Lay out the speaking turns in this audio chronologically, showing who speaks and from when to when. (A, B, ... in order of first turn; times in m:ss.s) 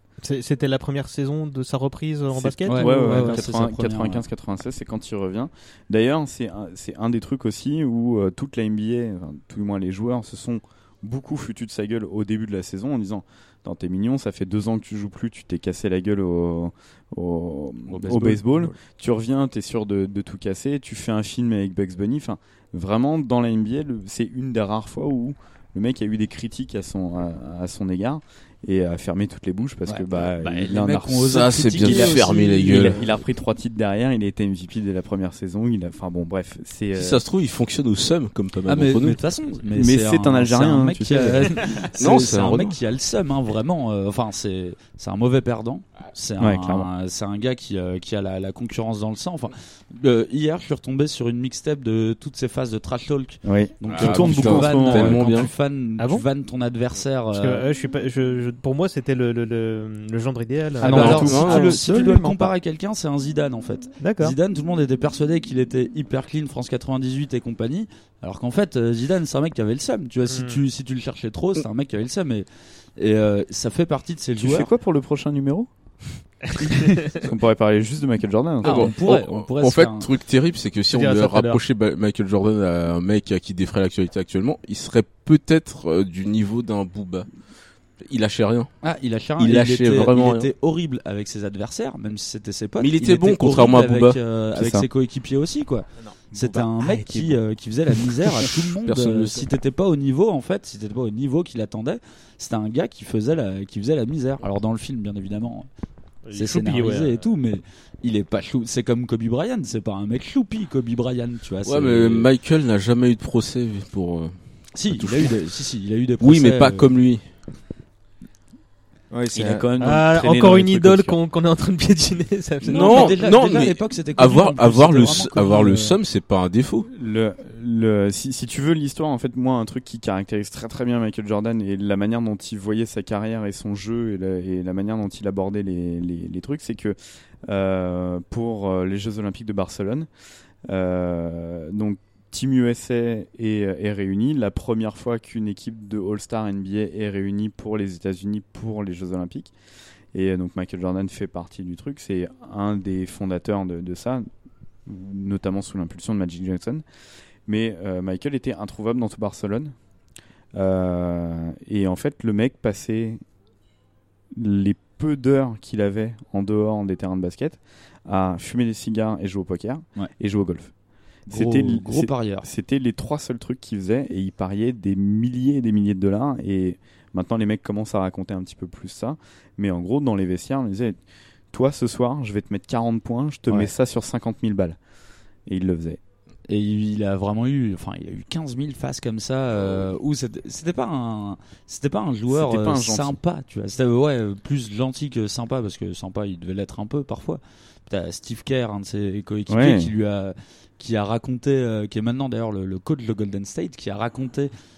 0:00.2-0:03.4 A
0:02.3-0:37.2 B
0:02.6-0:04.2 C
0:17.9-0:18.7 C
0:29.8-0:33.1 C
0:31.3-0:33.0 D
0:36.9-0:39.2 D
0:38.7-0:57.7 C
0:39.7-0:41.6 B
0:41.9-0:42.8 D
0:46.4-0:46.9 B
0:53.4-0:55.3 B
0:53.9-0:55.5 D
0:56.0-0:56.2 A
0:57.3-1:01.4 A
1:00.8-1:01.6 B
1:00.8-1:01.8 D
1:00.9-1:14.7 C
1:01.4-1:02.5 E
1:04.0-1:04.4 A
1:10.3-1:10.6 A
1:14.4-1:15.7 B
1:17.1-1:18.9 B
1:18.6-1:20.1 C
1:18.6-1:27.3 D
1:20.9-1:21.6 A
1:28.0-1:28.7 D
1:28.8-1:45.7 C
1:29.4-1:30.5 D
1:32.8-1:34.2 D
1:34.6-1:34.9 B
1:36.0-1:37.3 E
1:38.8-1:39.5 D
1:46.2-1:47.2 A
1:46.3-1:52.3 C
1:51.6-1:54.3 D
1:54.7-1:56.9 C
1:54.9-1:55.4 D
1:56.2-1:57.2 D
1:59.1-1:59.8 E
1:59.3-2:01.2 B
1:59.8-2:03.2 A
2:02.6-2:06.0 C
2:02.6-2:06.9 D
2:06.9-2:20.1 B
2:20.7-2:29.5 B
2:30.1-2:34.2 B
2:34.8-2:36.8 B
2:37.5-2:39.7 B
2:40.5-2:43.2 B
2:44.3-2:50.7 B
2:51.3-3:01.0 B
2:51.3-2:52.4 C
3:01.5-3:04.8 B
3:05.4-3:06.0 B
3:06.5-3:24.5 C
3:12.3-3:13.2 B
3:19.5-3:19.9 B